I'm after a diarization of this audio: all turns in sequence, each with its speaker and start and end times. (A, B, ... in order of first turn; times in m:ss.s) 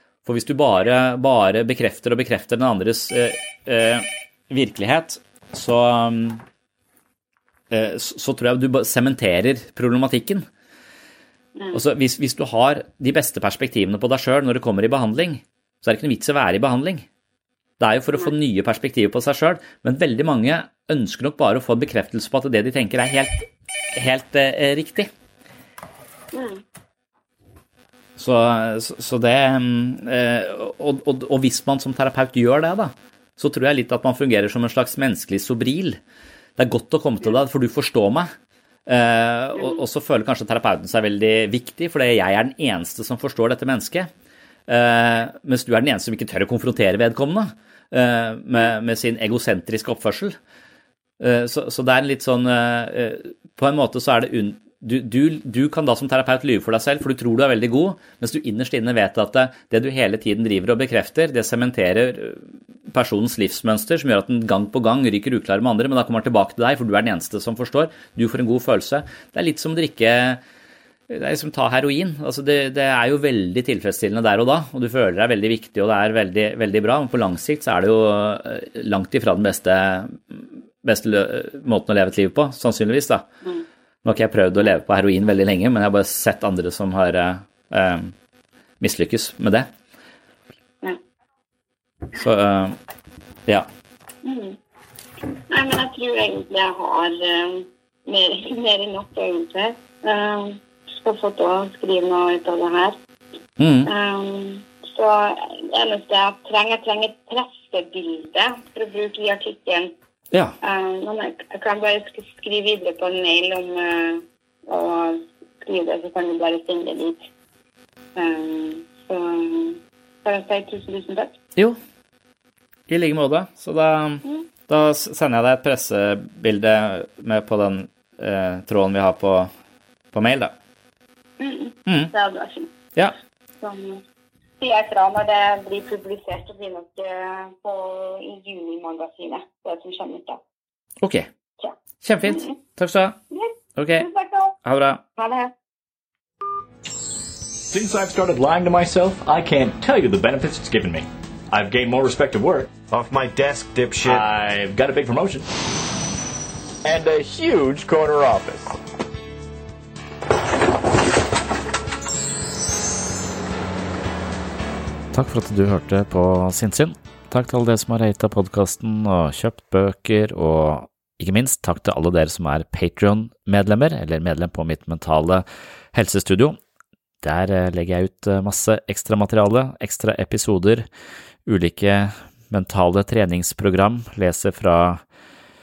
0:00.2-0:06.4 A
0:07.7-0:10.4 A
0:11.7-0:17.0 A
0:17.8-0:25.1 A
0:26.3-0:26.6 B
0:28.2-0:36.0 A
0:36.6-0:38.3 A
0:38.9-0:44.1 A
0:44.7-0:50.4 A
0:51.2-1:10.4 A
1:11.1-1:23.2 A
1:24.0-1:28.1 A
1:28.8-1:29.7 A
1:32.1-1:32.8 A
1:34.2-1:34.6 B
1:35.5-1:43.0 B
1:43.6-1:43.9 A
1:43.9-1:49.9 B
1:50.6-1:57.3 B
1:58.2-2:01.4 B
2:02.9-2:09.5 A
2:10.1-2:10.5 A
2:11.4-2:12.7 B
2:11.9-2:12.1 A
2:13.6-2:14.0 B
2:14.6-2:20.4 B
2:21.0-2:21.3 A
2:21.6-2:22.5 B
2:22.0-2:23.2 A
2:23.3-2:24.6 B
2:23.8-2:24.1 A
2:24.6-2:25.0 A
2:25.2-2:25.5 B
2:27.7-2:35.5 C
2:34.0-2:34.3 A
2:36.8-2:38.8 C
2:45.1-2:56.6 A
2:57.2-3:00.9 A
3:01.5-3:05.0 A